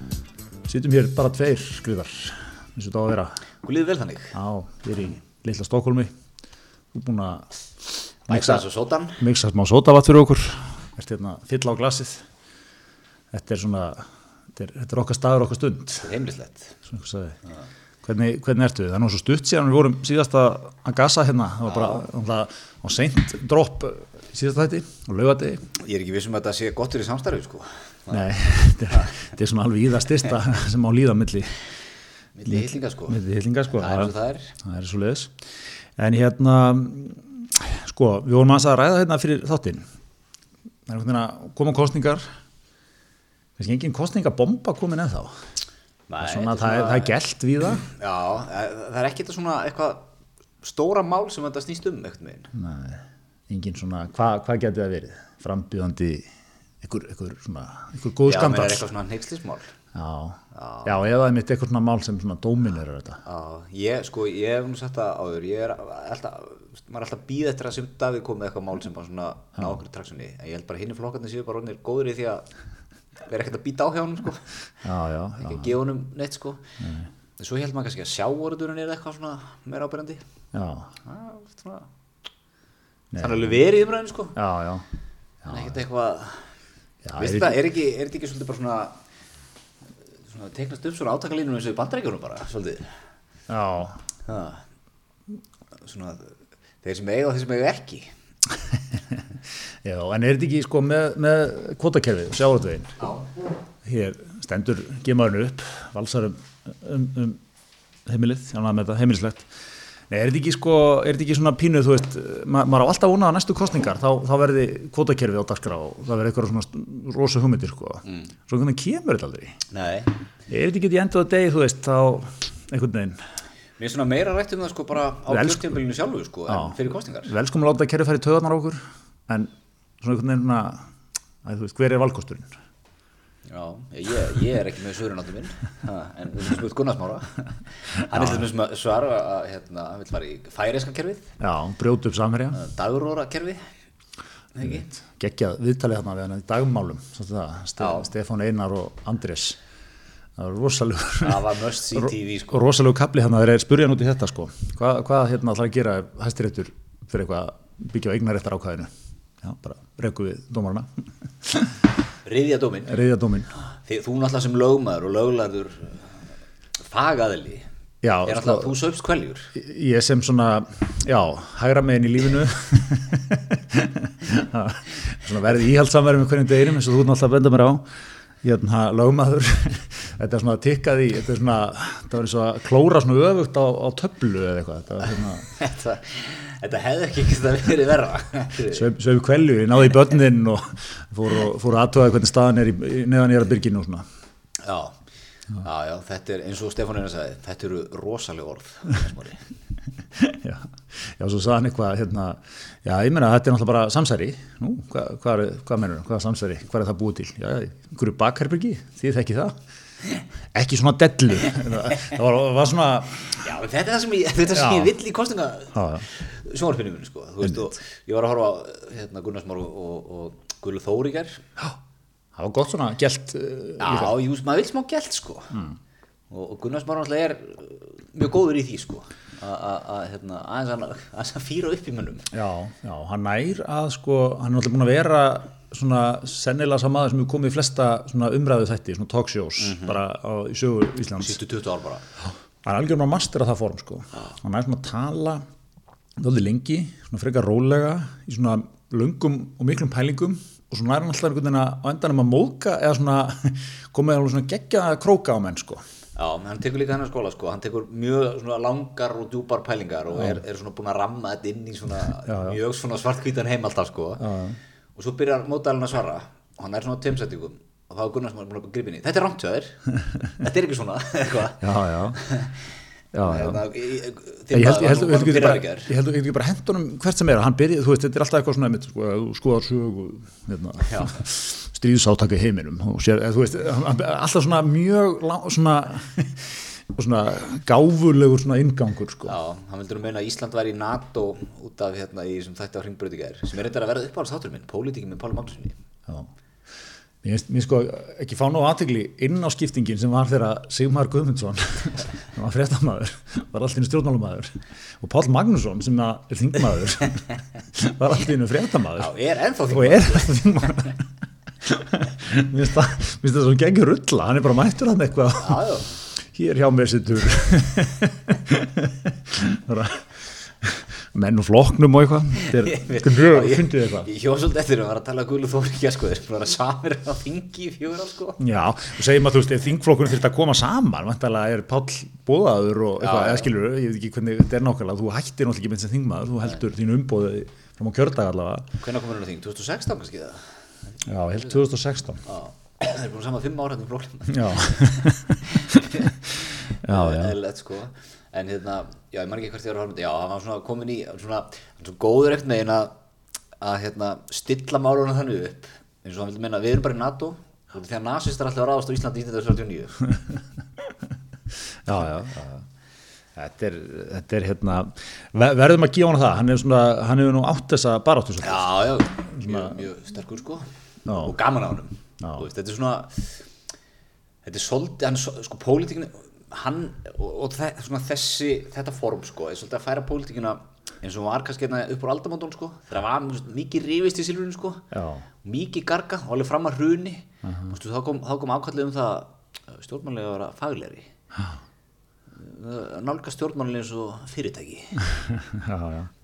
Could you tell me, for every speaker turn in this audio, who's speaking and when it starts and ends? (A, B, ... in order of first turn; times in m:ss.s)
0:00.7-0:03.4 A
0:03.6-0:04.4 B
0:04.3-0:06.1 A
0:06.9-0:07.5 A
0:08.3-0:08.6 A
0:08.3-0:09.2 B
0:09.2-0:12.2 A
0:13.3-0:16.1 A
0:16.0-0:16.8 B
0:16.9-0:17.4 A
0:18.0-0:25.7 A
0:25.8-0:28.4 B
0:28.1-0:31.6 A
0:32.4-0:33.2 B
0:32.5-0:35.3 A
0:33.7-0:34.5 B
0:36.0-0:39.8 A
0:40.9-0:42.2 A
0:43.6-0:45.5 A
0:46.1-0:47.1 B
0:46.2-0:47.9 A
0:47.9-0:50.0 B
0:50.6-0:52.5 B
0:52.5-0:56.3 A
0:56.8-0:58.9 A
0:58.2-0:59.7 B
0:59.9-1:03.2 A
1:00.5-1:00.9 B
1:03.2-1:12.5 B
1:13.3-1:14.5 B
1:14.8-1:15.7 A
1:15.4-1:16.7 B
1:16.8-1:17.1 A
1:17.4-1:20.2 B
1:20.5-1:20.9 A
1:21.0-1:21.9 B
1:23.1-1:23.6 A
1:23.2-1:24.4 B
1:24.4-1:24.8 A
1:25.4-1:25.7 A
1:25.5-1:26.4 B
1:27.0-1:27.6 A
1:27.2-1:29.0 B
1:30.3-1:32.9 B
1:33.5-1:34.0 A
1:34.3-1:34.6 B
1:35.8-1:36.3 B
1:36.8-1:38.1 B
1:38.8-1:39.2 A
1:39.8-1:42.9 A
1:43.8-1:47.4 A
1:48.0-1:49.5 A
1:50.1-1:59.6 A
1:59.7-2:00.1 B
2:00.5-2:03.2 A
2:03.8-2:07.3 B
2:05.3-2:05.8 A
2:06.5-2:10.9 A
2:11.4-2:12.5 A
2:13.5-2:21.3 B
2:18.1-2:18.5 A
2:21.4-2:22.6 A
2:22.5-2:23.6 B
2:24.6-2:24.9 B
2:24.6-2:29.6 A
2:27.8-2:28.1 B
2:30.4-2:41.8 A
2:31.2-2:32.6 B
2:42.2-2:43.0 B
2:42.9-2:43.5 A
2:43.7-2:46.1 B
2:46.8-2:47.7 B
2:48.0-2:48.8 A
2:48.2-2:49.5 B
2:49.6-2:57.9 A
2:58.4-3:05.6 A
3:05.5-3:08.8 B
3:08.7-3:14.0 A
3:14.6-3:15.0 B
3:15.6-3:19.4 B
3:20.2-3:29.6 A
3:30.5-3:33.4 A
3:33.3-3:41.4 B
3:34.5-3:34.9 A
3:35.7-3:36.1 A
3:37.4-3:37.7 A
3:42.4-3:44.1 A
3:43.8-3:45.6 B
3:46.3-3:52.3 B
3:52.3-4:01.4 A
3:59.6-4:00.0 B
4:01.2-4:02.0 B
4:02.6-4:05.4 A
4:06.2-4:15.8 A
4:16.2-4:24.2 B
4:20.1-4:20.4 A
4:22.2-4:22.6 A
4:24.2-4:24.6 A
4:25.0-4:32.6 B
4:31.6-4:32.2 A
4:33.1-4:33.6 A
4:33.2-4:35.9 B
4:34.5-4:49.4 A
4:40.8-4:41.2 B
4:49.2-4:55.8 B
4:57.2-5:09.1 A
5:09.0-5:10.9 B
5:09.7-5:11.0 A
5:11.6-5:15.7 A
5:15.4-5:15.9 B
5:16.2-5:24.1 A
5:22.4-5:28.4 B
5:28.4-5:38.7 A
5:33.0-5:33.5 B
5:38.8-5:40.5 B
5:41.1-5:42.2 A
5:42.2-5:52.9 B
5:44.3-5:46.1 A
5:46.8-5:47.4 A
5:53.6-6:00.1 B
6:01.8-6:02.6 A
6:03.4-6:08.7 A
6:08.4-6:13.4 B
6:09.3-6:09.8 A
6:11.1-6:11.4 A
6:12.2-6:12.4 A
6:14.4-6:24.9 B
6:24.9-6:25.2 A
6:25.4-6:31.1 B
6:27.4-6:27.7 A
6:32.3-6:35.1 B
6:35.2-6:36.1 A